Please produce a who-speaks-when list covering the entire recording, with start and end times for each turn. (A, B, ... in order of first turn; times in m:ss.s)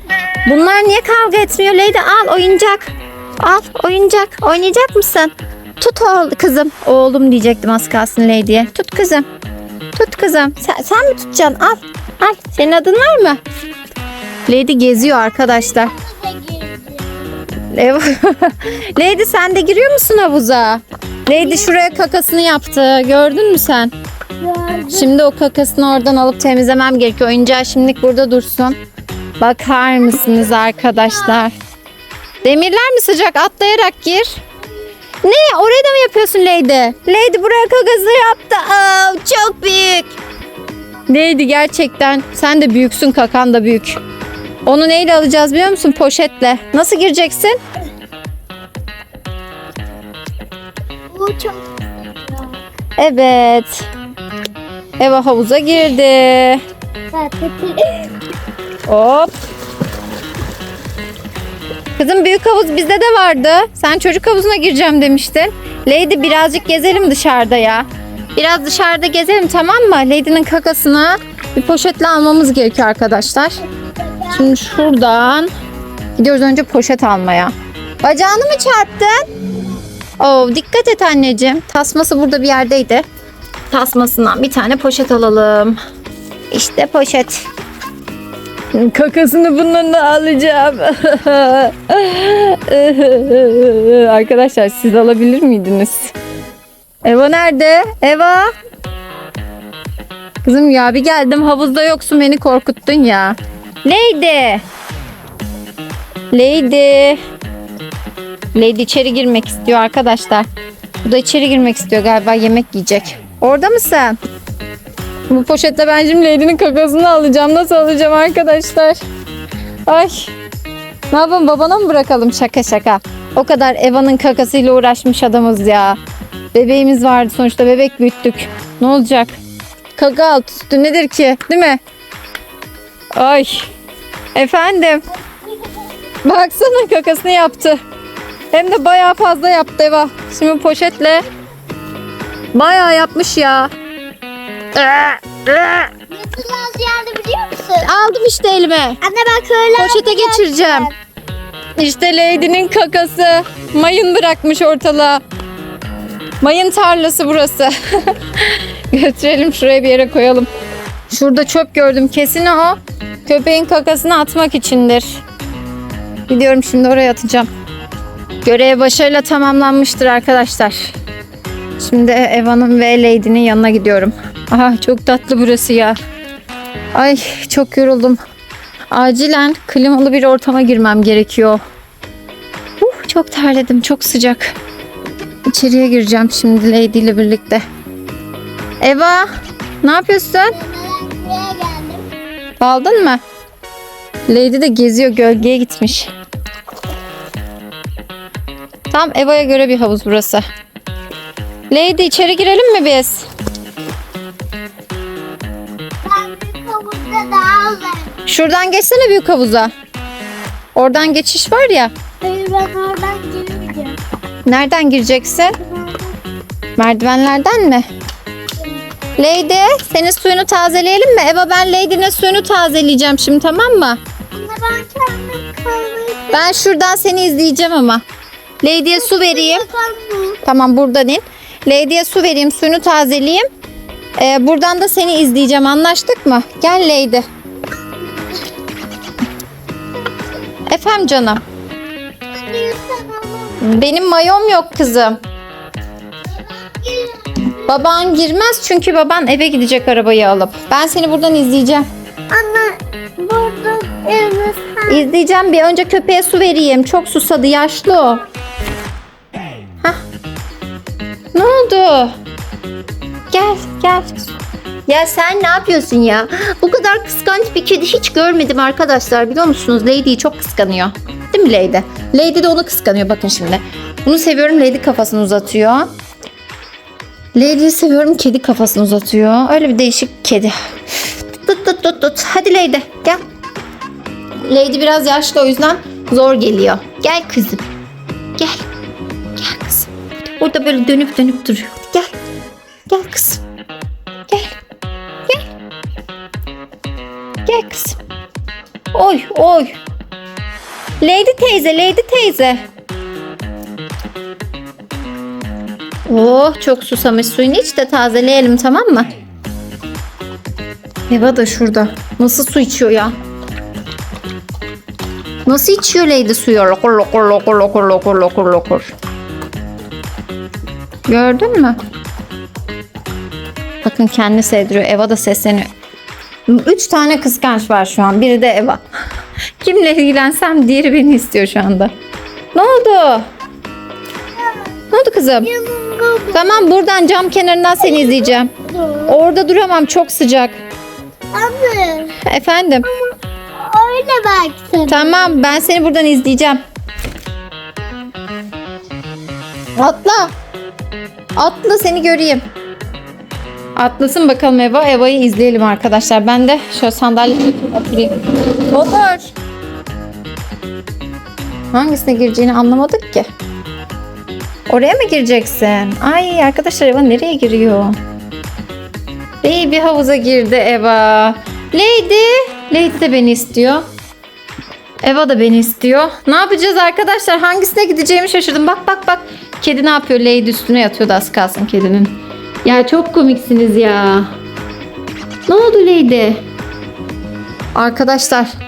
0:00.4-0:09.2 A
0:09.9-0:13.4 A
0:14.4-0:15.9 A
0:15.5-0:17.4 B
0:17.7-0:23.9 A
0:21.3-0:22.0 B
0:24.4-0:25.1 B
0:24.9-0:28.8 A
0:29.4-0:31.5 A
0:30.4-0:31.4 B
0:32.4-0:34.4 A
0:35.2-0:40.2 A
0:41.1-0:44.0 A
0:44.6-0:47.6 A
0:51.1-0:52.5 B
0:53.0-0:53.9 A
0:55.0-0:56.6 A
0:57.1-0:58.1 B
0:58.9-0:59.3 A
1:02.0-1:13.6 A
1:13.8-1:14.9 B
1:14.3-1:15.5 A
1:16.2-1:19.2 A
1:20.2-1:23.0 A
1:23.7-1:25.8 A
1:26.5-1:27.4 A
1:28.7-1:36.1 A
1:37.0-1:38.5 A
1:40.4-1:44.6 A
1:46.3-1:47.2 A
1:48.5-1:50.5 A
1:51.0-1:54.2 A
1:55.3-1:59.0 A
1:59.9-2:00.3 A
2:01.1-2:06.0 A
2:06.5-2:09.4 A
2:10.0-2:11.8 A
2:13.2-2:13.7 A
2:14.3-2:15.0 A
2:16.2-2:17.8 A
2:18.5-2:21.2 A
2:22.5-2:23.7 A
2:24.7-2:25.9 A
2:26.1-2:27.9 B
2:27.8-2:29.0 A
2:29.0-2:30.9 B
2:29.8-2:30.9 A
2:31.8-2:35.2 A
2:36.4-2:40.5 A
2:41.1-2:45.2 A
2:46.3-2:47.5 A
2:48.4-2:50.9 A
2:51.8-2:56.0 A
2:56.9-2:58.2 A
2:58.9-3:01.6 A
3:02.8-3:04.6 A
3:05.5-3:07.6 A
3:08.8-3:09.3 A
3:09.8-3:10.6 A
3:10.5-3:12.0 B
3:12.6-3:13.2 A
3:14.3-3:16.1 A
3:18.9-3:20.4 A
3:21.7-3:23.3 A
3:26.0-3:28.2 B
3:28.2-3:29.7 A
3:30.7-3:31.9 A
3:32.2-3:34.0 B
3:34.4-3:35.6 A
3:35.6-3:36.2 B
3:36.8-3:37.9 A
3:39.2-3:44.0 A
3:44.3-3:46.6 B
3:46.3-3:48.0 A
3:48.6-3:49.6 A
3:48.9-3:50.4 B
3:50.4-3:53.4 A
3:54.2-3:57.2 A
3:57.9-3:58.5 B
4:00.7-4:01.4 A
4:02.3-4:03.9 B
4:03.6-4:05.2 A
4:06.2-4:07.6 B
4:07.6-4:11.9 A
4:12.3-4:15.0 B
4:14.9-4:18.2 A
4:21.3-4:22.2 A
4:23.3-4:24.3 A
4:24.9-4:35.9 A
4:37.3-4:43.2 A
4:44.4-4:47.6 A
4:48.4-4:48.6 A
4:49.4-4:52.1 A
4:52.9-4:53.4 A
4:54.3-4:54.6 A
4:57.4-4:58.0 A
4:58.9-4:59.7 A
5:01.0-5:02.6 A
5:06.1-5:09.1 A
5:11.1-5:13.1 A
5:15.4-5:18.9 A
5:21.1-5:21.8 A
5:23.8-5:25.7 A
5:26.5-5:28.8 A
5:29.6-5:31.9 A
5:32.5-5:33.3 A
5:34.4-5:34.7 B
5:34.9-5:35.5 A
5:35.4-5:36.7 B
5:36.3-5:38.5 A
5:37.8-5:39.2 B
5:39.0-5:40.6 A
5:41.3-5:42.2 B
5:42.2-5:42.9 A
5:42.9-5:45.5 B
5:44.9-5:46.6 A
5:49.8-5:50.3 A
5:51.4-5:52.4 A
5:53.8-5:59.3 A
6:01.7-6:03.3 A
6:04.7-6:08.0 A
6:09.4-6:13.8 A
6:15.0-6:24.3 A
6:25.5-6:26.4 A
6:27.7-6:28.5 A